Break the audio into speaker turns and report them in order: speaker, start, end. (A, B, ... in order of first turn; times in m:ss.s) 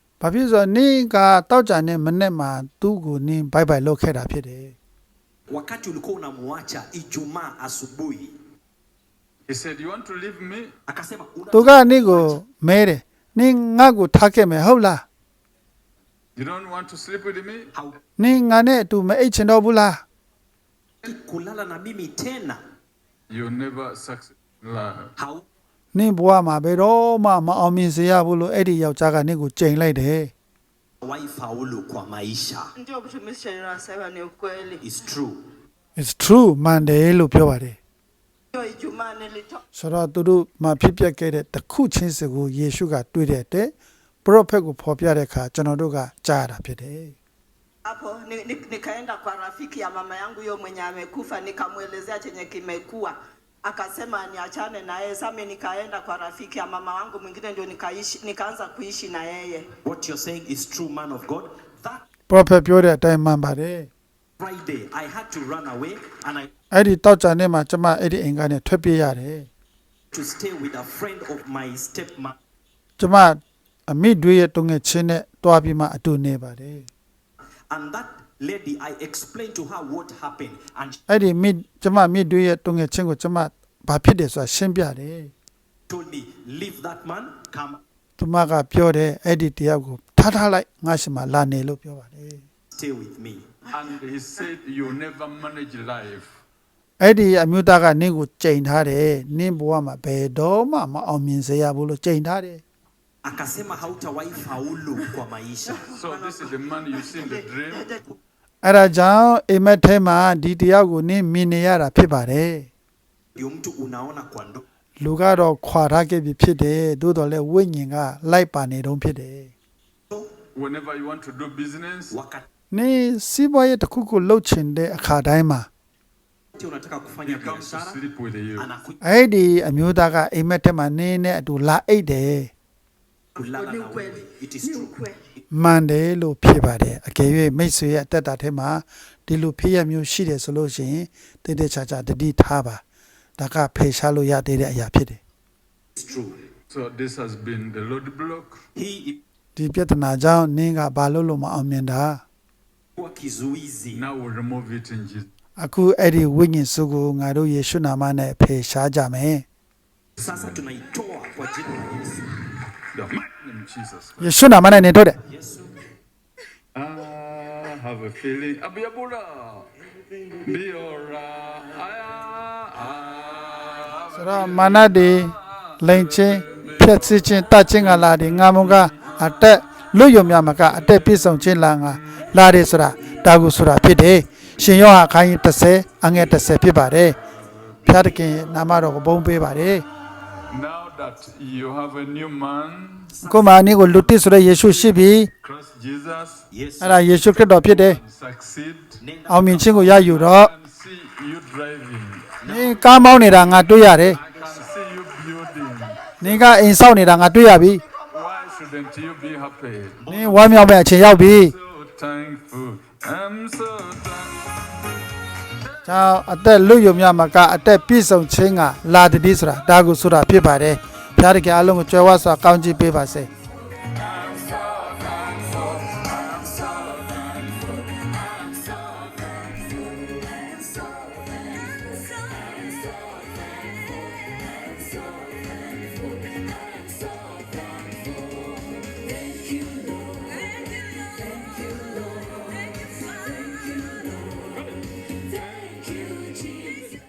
0:00.2-0:04.8 A
0:05.5-0:08.3 B
0:09.5-0:10.7 C
0:10.9-0:12.4 B
0:11.5-0:15.0 A
0:16.4-0:17.7 C
0:18.2-0:20.0 A
0:21.0-0:22.6 B
0:23.3-0:25.1 C
0:25.2-0:25.4 B
0:25.9-0:30.3 A
0:31.0-0:32.7 B
0:32.8-0:34.8 D
0:34.8-0:35.4 B
0:36.0-0:37.8 A
0:38.5-0:39.6 D
0:39.7-0:43.7 A
0:44.2-0:47.2 A
0:47.8-0:59.7 D
0:59.8-1:02.0 B
1:02.3-1:03.9 A
1:04.4-1:06.5 B
1:06.7-1:09.5 A
1:10.1-1:12.4 B
1:13.0-1:16.9 A
1:17.7-1:21.0 B
1:21.1-1:25.3 A
1:25.9-1:27.8 B
1:28.2-1:32.4 A
1:32.7-1:33.4 B
1:33.7-1:36.3 C
1:37.0-1:42.6 A
1:43.2-1:45.8 B
1:45.7-1:48.0 D
1:45.9-1:47.9 C
1:48.6-1:52.7 A
1:53.3-1:54.6 B
1:55.0-1:59.5 A
2:00.5-2:02.1 C
2:02.1-2:02.4 B
2:02.7-2:05.7 A
2:06.5-2:08.0 B
2:07.2-2:08.7 C
2:08.6-2:09.0 B
2:09.0-2:12.5 A
2:13.3-2:15.0 B
2:13.4-2:15.2 D
2:15.5-2:22.8 A
2:23.4-2:25.2 A
2:26.0-2:26.4 B
2:26.7-2:28.6 C
2:28.8-2:29.2 B
2:29.6-2:32.2 A
2:33.0-2:34.0 B
2:33.9-2:35.3 C
2:35.6-2:39.4 A
2:40.2-2:42.3 B
2:40.2-2:40.6 C
2:42.9-2:44.3 C
2:44.2-2:45.2 A
2:45.2-2:45.8 B
2:46.7-2:49.7 C
2:50.4-2:57.2 C
2:54.1-3:07.2 A
2:57.8-2:59.2 C
3:07.8-3:09.8 A
3:10.5-3:13.1 C
3:13.1-3:13.8 B
3:13.2-3:15.3 A
3:15.4-3:16.4 C
3:16.5-3:17.0 B
3:16.8-3:18.0 A
3:17.6-3:19.0 C
3:19.0-3:19.9 B
3:19.3-3:20.5 A
3:19.7-3:22.3 C
3:22.4-3:23.5 B
3:22.4-3:24.2 A
3:24.1-3:26.1 C
3:24.2-3:24.6 B
3:26.2-3:27.8 A
3:28.1-3:30.0 C
3:30.0-3:30.7 B
3:30.1-3:31.5 A
3:31.2-3:34.3 C
3:35.6-3:35.9 C
3:35.8-3:43.3 A
3:43.9-3:49.7 C
3:52.6-3:52.8 C
3:56.5-3:58.0 C
3:59.6-4:00.0 C
4:04.3-4:06.8 C